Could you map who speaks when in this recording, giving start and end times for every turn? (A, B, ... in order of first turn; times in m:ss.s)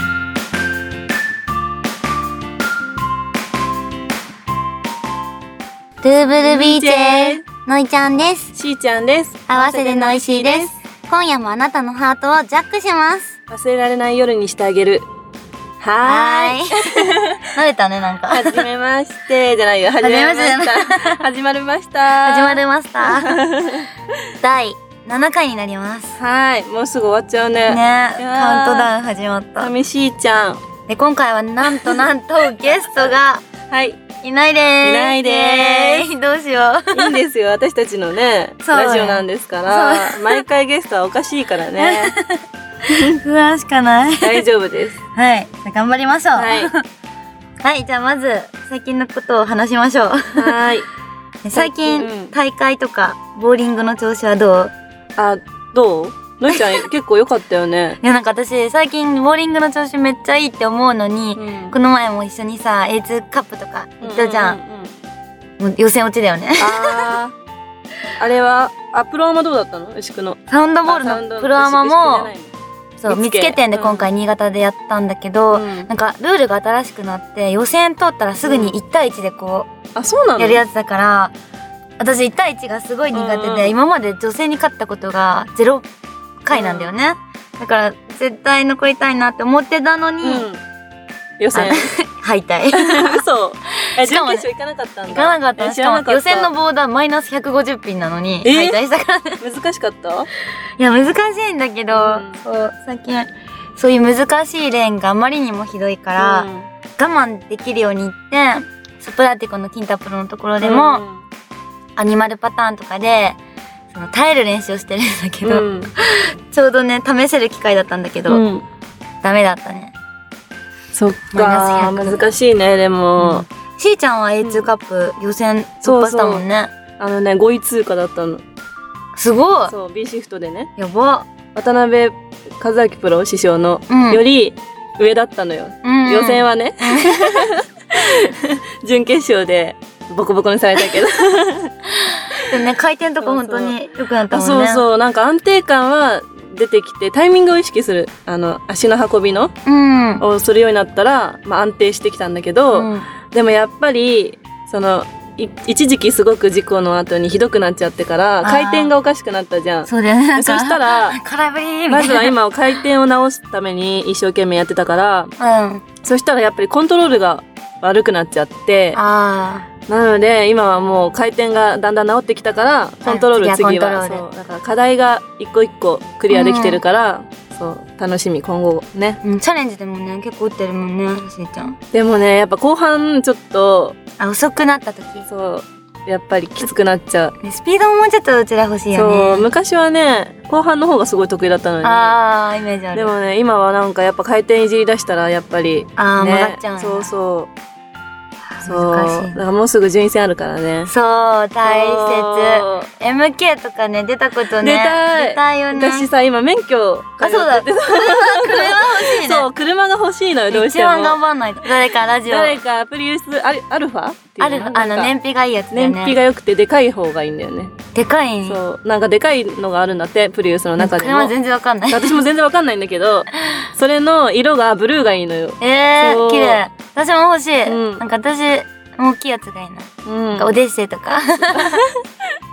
0:06.0-0:08.5 A
0:06.4-0:07.4 B
0:08.5-0:10.7 B
0:09.5-0:13.3 A
0:13.5-0:15.0 B
0:15.8-0:17.5 B
0:16.0-0:18.6 A
0:18.3-0:23.9 B
0:20.0-0:21.2 A
0:22.2-0:23.4 A
0:24.4-0:26.2 A
0:26.2-0:28.9 B
0:27.7-0:29.7 A
0:29.6-0:30.6 B
0:30.9-0:33.4 A
0:31.7-0:32.0 B
0:33.7-0:34.0 B
0:34.2-0:37.1 A
0:34.8-0:36.1 B
0:36.9-0:42.2 B
0:38.6-0:40.4 A
0:41.8-0:44.4 A
0:42.8-0:43.2 B
0:44.2-0:45.0 B
0:45.1-0:46.8 A
0:46.3-0:46.7 B
0:47.6-0:50.7 A
0:50.3-0:50.9 B
0:51.4-0:54.7 A
0:51.5-0:52.3 B
0:55.2-0:58.0 B
0:58.0-1:04.6 A
1:01.4-1:01.7 B
1:04.0-1:04.9 B
1:05.6-1:07.1 A
1:06.6-1:07.3 B
1:08.2-1:12.5 B
1:10.5-1:12.3 A
1:13.0-1:19.7 A
1:13.1-1:14.1 B
1:15.5-1:15.9 B
1:18.4-1:18.7 B
1:19.9-1:20.6 B
1:20.4-1:21.3 A
1:22.0-1:25.8 A
1:23.1-1:23.8 B
1:26.4-1:30.5 A
1:26.5-1:26.9 B
1:30.2-1:30.6 B
1:31.4-1:31.9 B
1:31.5-1:34.4 A
1:32.7-1:36.5 B
1:35.1-1:39.4 A
1:38.4-1:38.8 B
1:39.4-1:40.3 B
1:40.8-1:51.0 A
1:41.9-1:42.4 B
1:46.2-1:46.7 B
1:50.6-1:51.2 B
1:52.0-1:53.4 A
1:53.9-1:58.4 A
1:55.4-1:55.9 B
1:58.3-1:58.6 B
1:59.2-1:59.9 A
2:00.9-2:03.4 B
2:01.3-2:02.2 A
2:03.2-2:06.7 A
2:05.8-2:06.4 B
2:07.0-2:08.4 B
2:09.2-2:09.7 A
2:09.7-2:10.7 B
2:10.8-2:11.3 A
2:11.5-2:21.7 B
2:13.9-2:14.2 A
2:15.8-2:17.6 A
2:22.0-2:24.8 A
2:22.3-2:22.7 B
2:23.2-2:23.8 B
2:24.3-2:29.5 B
2:29.6-2:30.2 A
2:30.2-2:41.2 B
2:32.7-2:33.1 A
2:38.4-2:38.9 A
2:39.9-2:42.3 A
2:41.9-2:45.3 B
2:45.4-2:45.8 A
2:46.0-2:49.0 B
2:48.9-2:49.6 A
2:49.9-2:59.2 B
2:53.0-2:54.2 A
2:56.3-2:56.8 A
2:59.2-3:01.8 A
3:01.9-3:04.0 B
3:04.2-3:05.2 A
3:05.3-3:07.3 B
3:07.4-3:09.5 A
3:08.9-3:12.1 B
3:11.8-3:13.1 A
3:12.9-3:17.5 B
3:16.0-3:17.1 A
3:18.6-3:19.4 A
3:18.6-3:20.9 B
3:20.9-3:26.1 A
3:21.6-3:22.9 B
3:24.6-3:31.2 B
3:27.2-3:29.5 A
3:30.5-3:32.6 A
3:32.2-3:35.1 B
3:34.4-3:36.2 A
3:35.7-3:37.8 B
3:37.9-3:38.6 A
3:38.4-3:41.3 B
3:40.8-3:42.2 A
3:41.9-3:46.6 B
3:43.4-3:43.6 A
3:45.6-3:51.8 A
3:47.6-3:48.0 B
3:50.0-3:50.6 B
3:51.5-3:52.2 B